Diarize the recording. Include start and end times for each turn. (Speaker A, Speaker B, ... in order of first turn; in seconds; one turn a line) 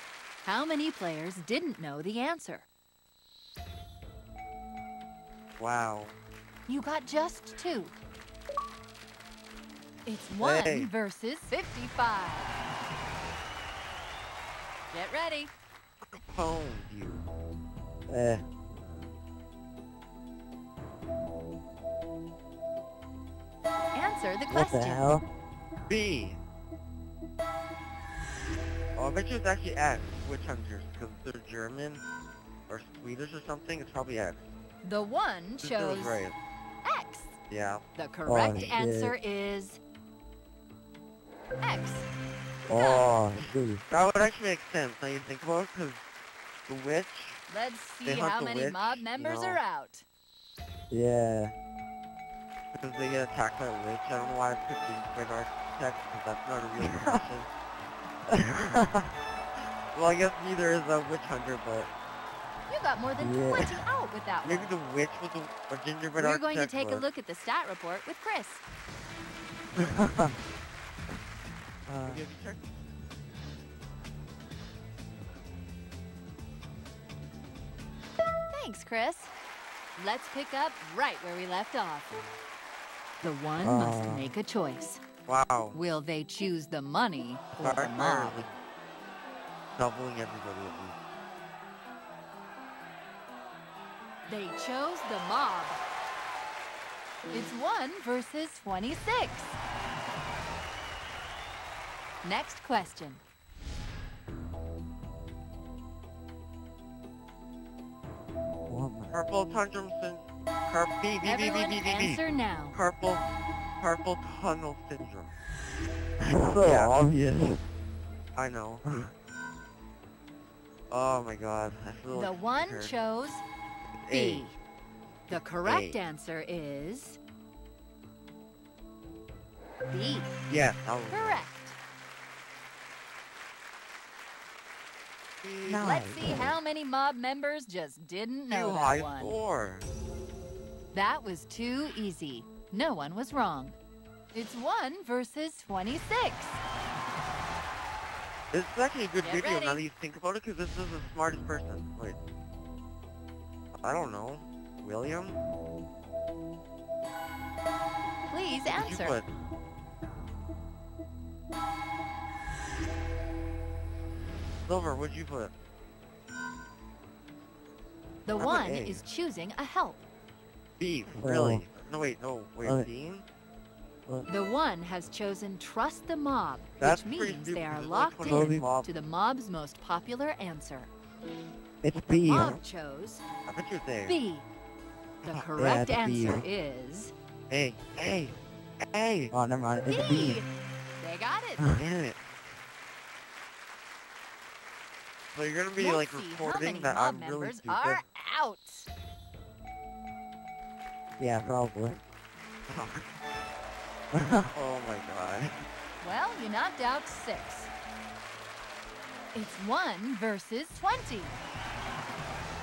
Speaker A: 0.4-2.6
Speaker B: 5.6-6.2
Speaker A: 6.7-8.0
Speaker A: 10.1-12.5
Speaker B: 10.4-10.9
Speaker A: 14.9-15.5
Speaker B: 16.1-17.2
Speaker C: 18.1-18.9
Speaker A: 23.9-25.1
Speaker C: 24.5-25.2
Speaker B: 25.9-26.4
Speaker B: 28.9-32.0
Speaker B: 32.7-34.5
Speaker A: 34.8-36.2
Speaker B: 35.6-36.3
Speaker A: 36.8-37.4
Speaker B: 37.5-37.8
Speaker A: 38.0-39.8
Speaker C: 38.2-39.1
Speaker A: 41.6-42.1
Speaker C: 42.7-43.8
Speaker A: 42.7-43.1
Speaker B: 43.9-46.0
Speaker B: 46.7-47.4
Speaker A: 47.5-50.0
Speaker B: 48.0-49.6
Speaker C: 50.9-51.5
Speaker B: 52.8-57.5
Speaker C: 56.8-57.2
Speaker C: 58.3-59.1
Speaker B: 59.9-61.9
Speaker A: 62.7-64.7
Speaker C: 63.2-63.8
Speaker B: 64.4-67.0
Speaker A: 66.2-68.6
Speaker C: 69.8-70.3
Speaker C: 71.9-72.2
Speaker B: 72.0-72.7
Speaker A: 78.5-79.3
Speaker A: 80.0-82.2
Speaker A: 83.2-85.0
Speaker C: 83.6-84.3
Speaker B: 85.2-85.8
Speaker A: 85.7-88.5
Speaker B: 87.6-88.6
Speaker B: 89.8-91.0
Speaker A: 94.3-95.8
Speaker A: 97.3-99.6
Speaker A: 102.2-103.2
Speaker C: 108.7-109.2
Speaker B: 109.1-112.2
Speaker A: 111.2-112.8
Speaker B: 112.7-113.2
Speaker B: 113.8-115.3
Speaker C: 116.2-117.6
Speaker B: 116.6-116.9
Speaker B: 118.3-118.8
Speaker B: 120.9-122.9
Speaker A: 122.1-123.4
Speaker B: 123.9-124.5
Speaker A: 124.1-124.6
Speaker A: 125.3-127.2
Speaker B: 125.3-126.0
Speaker A: 129.9-130.3
Speaker B: 130.5-131.5
Speaker A: 131.1-131.8
Speaker B: 135.4-136.0
Speaker C: 135.6-136.6
Speaker A: 135.8-139.4
Speaker B: 138.5-139.8
Speaker A: 140.9-143.8
Speaker A: 144.3-146.6
Speaker B: 148.5-152.2
Speaker A: 149.2-149.8
Speaker B: 153.8-155.4
Speaker A: 158.3-159.2
Speaker B: 158.7-159.3
Speaker B: 164.7-165.5
Speaker A: 168.2-170.0
Speaker B: 168.4-169.0
Speaker B: 170.8-173.2
Speaker C: 171.1-171.6
Speaker A: 174.3-180.9
Speaker B: 176.8-178.9
Speaker C: 178.2-178.7
Speaker C: 181.8-182.6
Speaker A: 182.1-183.2
Speaker B: 183.5-184.2
Speaker A: 184.0-184.5
Speaker B: 185.2-185.5
Speaker A: 185.3-187.1
Speaker C: 185.6-186.4
Speaker B: 187.5-188.3
Speaker B: 188.9-189.3
Speaker C: 189.3-190.4
Speaker A: 189.9-191.7
Speaker B: 191.7-192.3
Speaker B: 195.3-198.0
Speaker A: 195.8-198.9
Speaker C: 201.2-202.0
Speaker B: 202.7-203.1
Speaker C: 204.1-204.5
Speaker B: 204.5-205.5
Speaker A: 206.0-207.7
Speaker A: 209.3-211.4